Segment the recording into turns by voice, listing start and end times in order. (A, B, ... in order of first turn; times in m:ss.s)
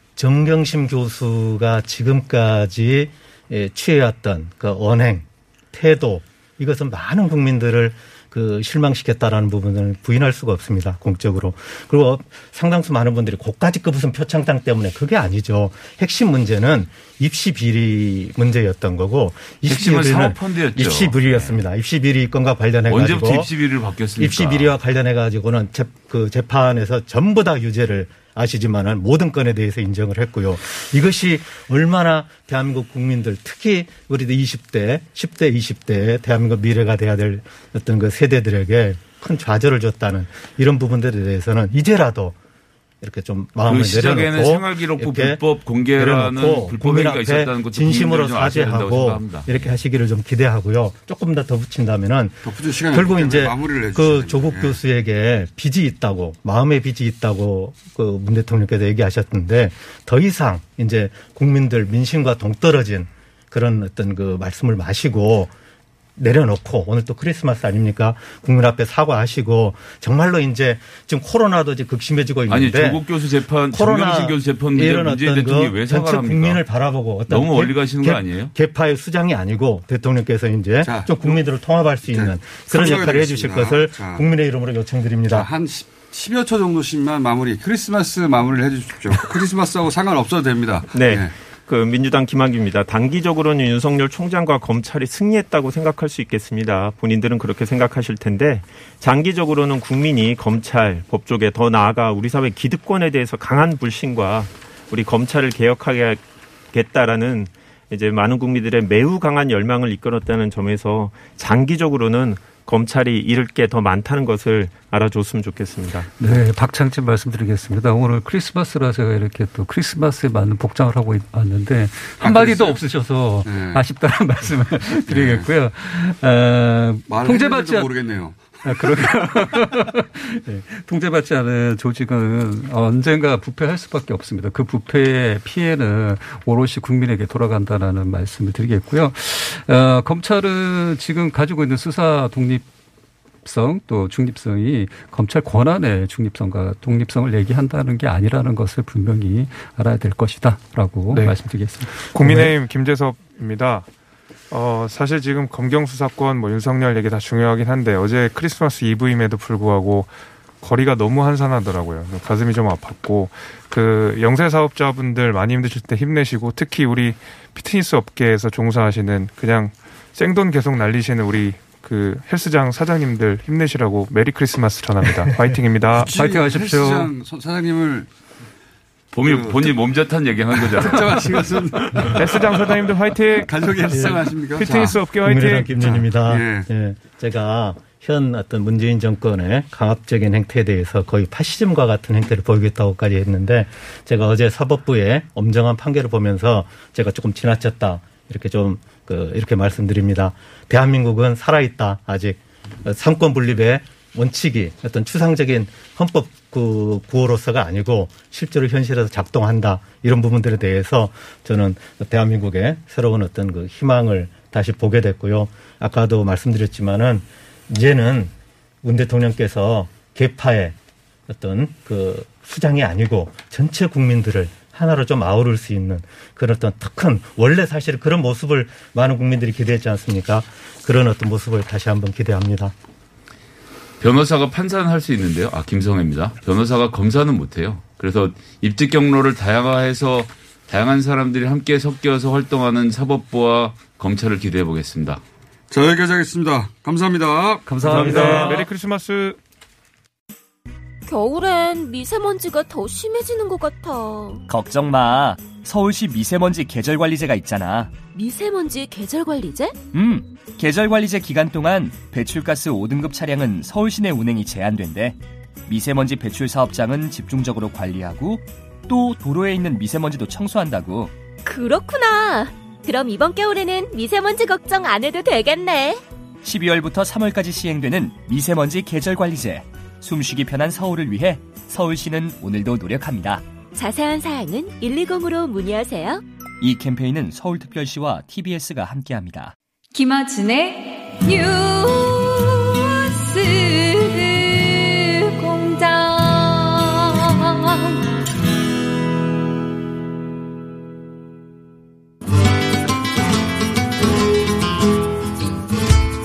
0:00.2-0:23.5 A
0:19.7-0:21.6 B
0:22.9-0:24.8 B
0:24.2-0:42.4 A
0:43.0-0:45.4 A
0:43.7-0:49.6 B
0:45.9-1:05.5 A
0:52.4-0:54.8 C
1:06.2-1:13.0 A
1:12.5-1:16.6 B
1:13.7-1:25.5 A
1:17.3-1:18.5 B
1:20.8-1:21.4 C
1:22.0-1:24.2 C
1:25.3-1:31.3 C
1:30.9-1:56.1 D
1:56.2-2:07.9 E
2:02.2-2:02.8 C
2:03.4-2:03.8 C
2:05.1-2:05.5 C
2:07.1-2:08.9 C
2:08.6-2:22.6 E
2:23.4-2:32.5 E
2:32.0-2:33.9 F
2:34.5-2:56.2 F
2:56.0-2:58.1 C
2:56.1-2:57.1 E
2:59.1-3:01.4 B
2:59.2-2:59.7 C
3:00.5-3:05.1 C
3:02.2-3:05.9 F
3:05.2-3:38.3 A
3:05.8-3:06.7 C
3:38.8-3:40.8 A
3:41.3-3:52.7 A
3:54.0-4:05.2 B
4:05.7-4:08.5 C
4:07.6-4:08.7 E
4:07.8-4:09.4 F
4:13.6-4:14.3 G
4:14.5-4:17.9 H
4:18.2-4:19.7 G
4:19.9-4:31.1 H
4:31.5-4:35.9 G
4:36.4-4:43.4 H
4:43.8-4:46.2 G
4:46.6-4:49.5 H
4:49.9-4:58.0 G